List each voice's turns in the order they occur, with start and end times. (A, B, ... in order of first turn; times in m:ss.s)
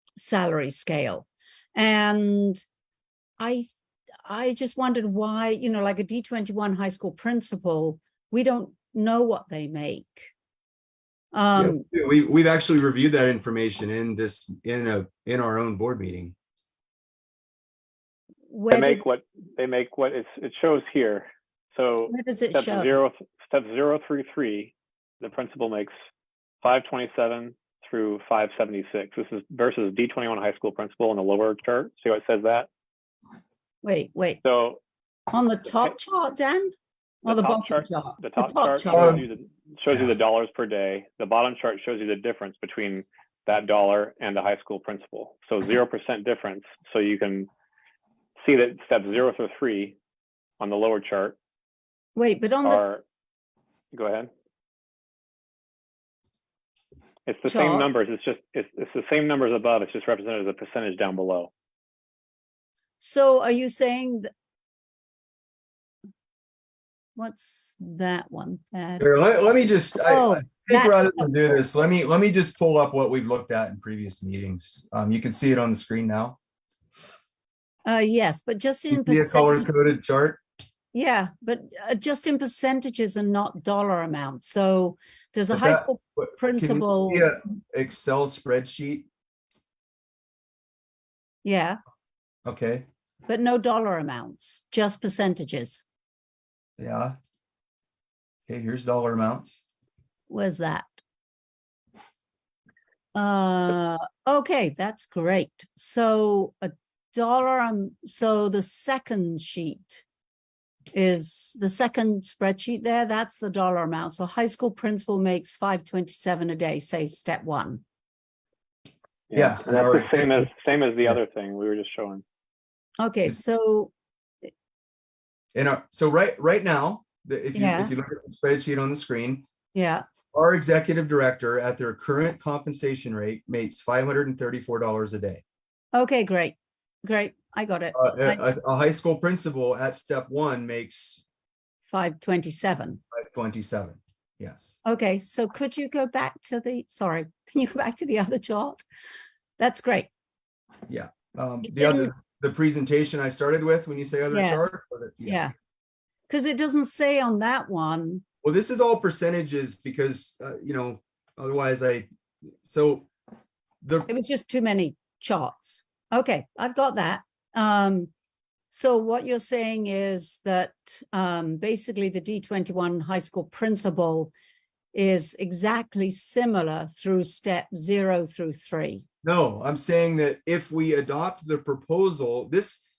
0:00.2-0:02.6 A
0:03.4-0:03.7 A
0:04.2-0:10.3 A
0:11.3-0:11.8 A
0:11.6-0:16.3 B
0:18.5-0:19.0 A
0:18.7-0:25.9 C
0:22.1-0:22.9 A
0:26.6-0:32.7 C
0:33.8-0:34.4 A
0:34.4-0:34.8 C
0:35.3-0:36.7 A
0:37.2-0:39.2 A
0:37.3-0:47.5 C
0:38.9-0:39.2 B
0:48.4-0:50.0 C
0:50.6-0:51.4 C
0:52.2-0:52.8 A
0:52.6-0:53.0 C
0:53.9-0:54.3 C
0:57.2-1:01.5 C
0:57.5-0:58.0 A
1:03.0-1:04.3 A
1:07.2-1:09.1 A
1:09.0-1:16.4 B
1:10.0-1:11.5 A
1:17.8-1:19.7 A
1:18.9-1:20.4 B
1:20.9-1:27.3 A
1:25.5-1:29.1 B
1:31.4-1:31.8 A
1:32.4-1:32.9 B
1:33.3-1:35.8 A
1:36.8-1:37.2 B
1:38.5-1:39.6 B
1:40.3-1:41.0 A
1:43.1-1:50.0 A
1:50.9-1:57.8 A
1:59.3-2:02.2 C
1:59.3-2:00.4 B
2:03.0-2:03.9 A
2:05.5-2:09.4 B
2:07.5-2:07.9 A
2:09.7-2:10.0 A
2:10.3-2:15.4 B
2:15.9-2:18.4 A
2:17.9-2:21.2 B
2:21.8-2:23.0 A
2:23.1-2:24.7 B
2:24.8-2:28.8 A
2:29.6-2:30.1 A
2:30.9-2:35.4 B
2:31.6-2:32.1 A
2:34.3-2:35.5 A
2:36.3-2:38.2 A
2:38.4-2:42.1 B
2:42.6-2:43.1 B
2:43.8-2:44.1 B
2:44.1-2:48.1 A
2:48.7-2:54.3 A
2:54.9-2:59.0 A
2:59.2-3:02.8 B